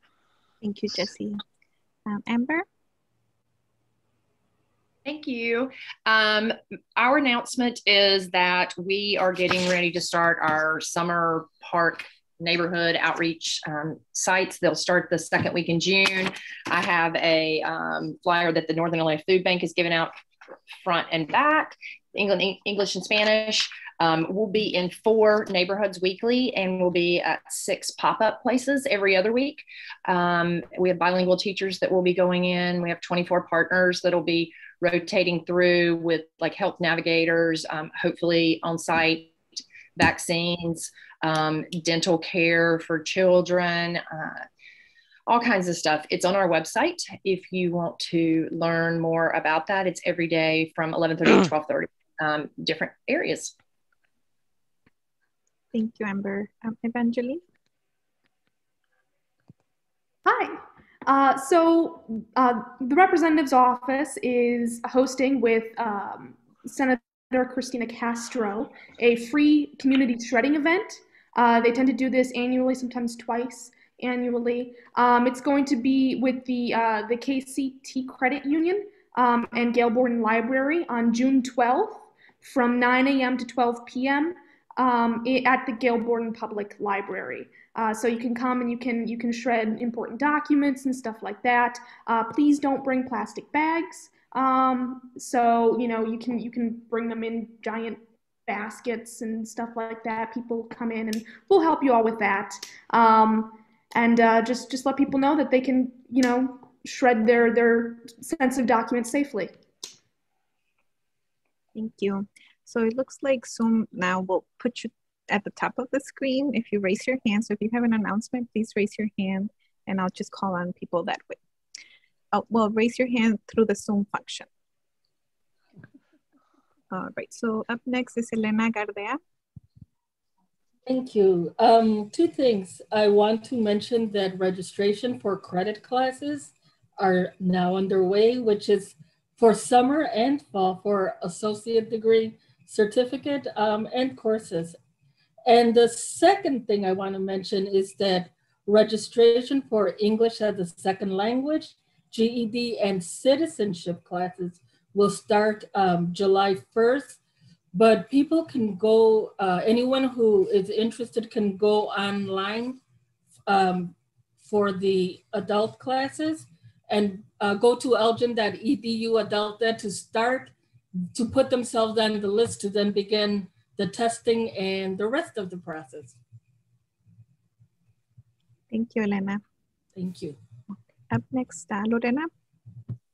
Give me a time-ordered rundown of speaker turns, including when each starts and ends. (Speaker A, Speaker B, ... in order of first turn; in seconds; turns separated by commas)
Speaker A: 0.6-1.4, Speaker A: 2.1-2.6, Speaker B: 5.0-20.1, Speaker B: 20.8-39.4, Speaker B: 40.0-44.4, Speaker B: 45.3-53.5, Speaker A: 55.7-57.4, Speaker C: 60.3-109.6, Speaker A: 111.8-121.4, Speaker A: 122.3-124.5, Speaker A: 126.9-129.2, Speaker D: 130.9-144.8, Speaker D: 145.5-157.2, Speaker D: 157.7-162.8, Speaker D: 163.5-170.5, Speaker D: 171.1-176.2, Speaker A: 178.7-179.4, Speaker D: 180.0-180.4, Speaker A: 181.1-182.3